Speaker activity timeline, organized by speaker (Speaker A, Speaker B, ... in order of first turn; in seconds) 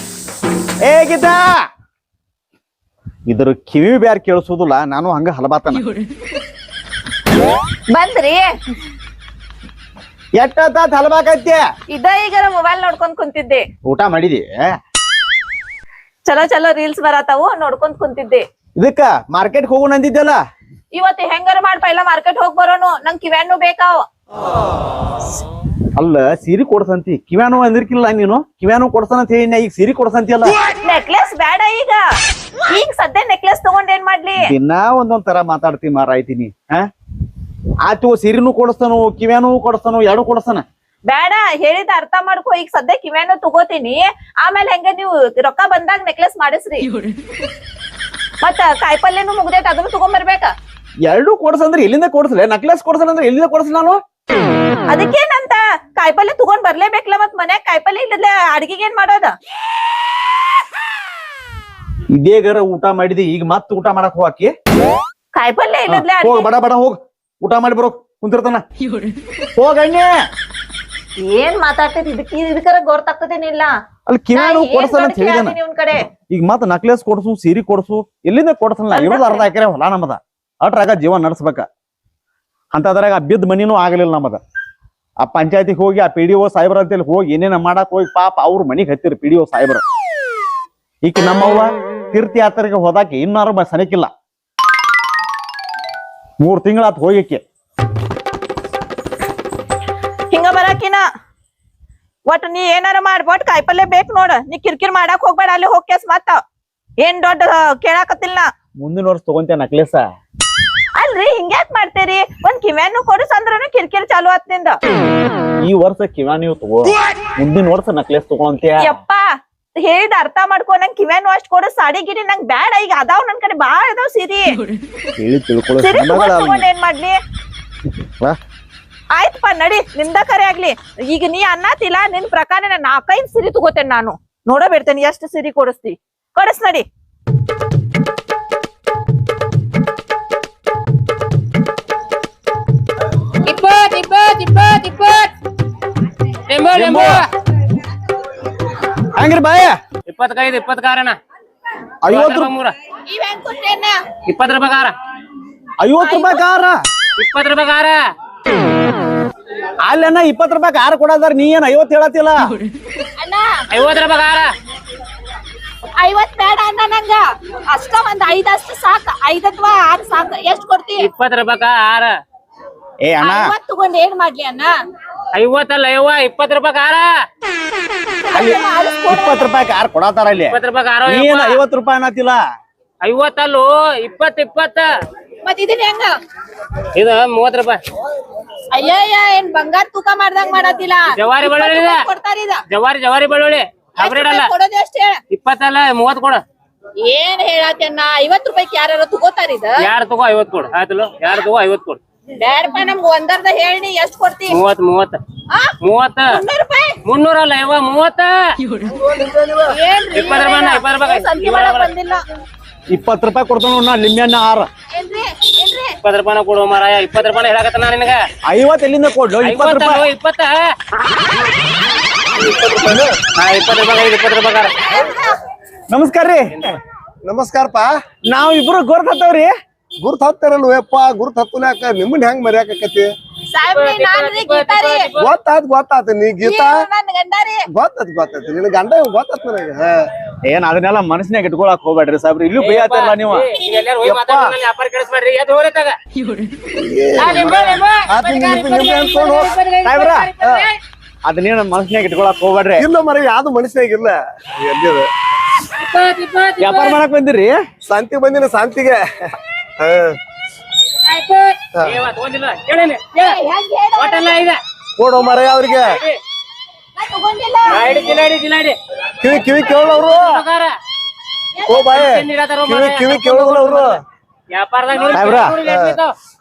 Speaker A: 0.8-1.4, 3.3-5.9, 10.4-11.6, 13.8-14.6, 18.8-20.4, 26.0-30.6, 34.4-36.9, 37.9-40.6, 51.1-54.0, 62.1-64.5, 65.9-68.6, 69.6-70.1, 74.1-75.6, 76.3-81.7, 82.7-84.4, 85.2-89.8, 91.0-94.1, 96.4-97.4, 108.8-110.0, 115.6-119.0, 125.2-126.7, 146.7-147.3, 149.1-149.8, 152.1-152.5, 155.8-156.8, 159.8-162.6, 173.0-173.5, 179.1-182.4, 212.9-214.7, 218.5-220.0, 225.9-226.8, 228.3-229.5, 240.4-243.5, 249.8-250.3, 251.3-252.8, 256.6-257.6, 275.1-275.6
Speaker B: 7.9-8.5, 11.9-13.6, 16.3-18.4, 20.9-24.0, 30.7-32.0, 32.7-34.5, 41.1-46.9, 48.4-50.5, 54.9-59.3, 65.3-66.5, 71.2-73.7, 74.3-76.0, 78.9-79.5, 100.3-101.0, 102.3-106.4, 107.0-108.5, 111.0-114.8, 118.8-119.3, 119.8-124.6, 125.8-127.2, 129.2-136.8, 153.1-154.0, 156.0-156.4, 163.2-163.7, 166.0-171.1, 173.2-174.7, 178.2-179.5, 185.4-186.2, 188.7-192.6, 194.0-195.2, 197.0-199.9, 202.4-204.6, 205.5-207.0, 209.7-212.2, 214.9-216.0, 224.8-225.4, 233.5-235.1, 236.4-237.7, 247.2-250.6, 263.1-264.4, 265.2-265.9, 267.0-268.1, 271.6-271.9
Speaker C: 143.5-145.3, 146.5-147.3, 150.1-151.2, 152.1-152.7, 154.2-155.0, 157.2-158.0, 163.7-164.5, 171.0-172.1, 175.3-177.1, 180.5-181.6, 183.0-184.9, 186.9-187.8, 191.1-192.0, 192.7-194.5, 195.3-196.4, 199.8-202.0, 204.5-205.2, 205.8-206.3, 207.1-208.4, 210.1-211.9, 216.0-218.2, 219.4-220.7, 223.3-224.9, 233.7-235.3, 242.6-246.0, 247.2-248.7, 249.3-249.8, 255.8-257.0, 261.1-263.4, 264.0-264.6, 265.8-266.2, 267.7-268.8, 269.7-270.7, 271.7-273.9, 274.5-276.1
Speaker D: 208.8-209.8, 222.3-223.2, 227.2-227.9, 230.0-233.1, 235.2-236.8, 237.7-240.1, 244.1-244.3, 246.7-249.5, 250.4-250.7, 252.8-255.1, 257.9-259.2, 259.8-260.2, 265.0-265.9, 269.2-270.3, 271.7-274.0, 275.6-276.0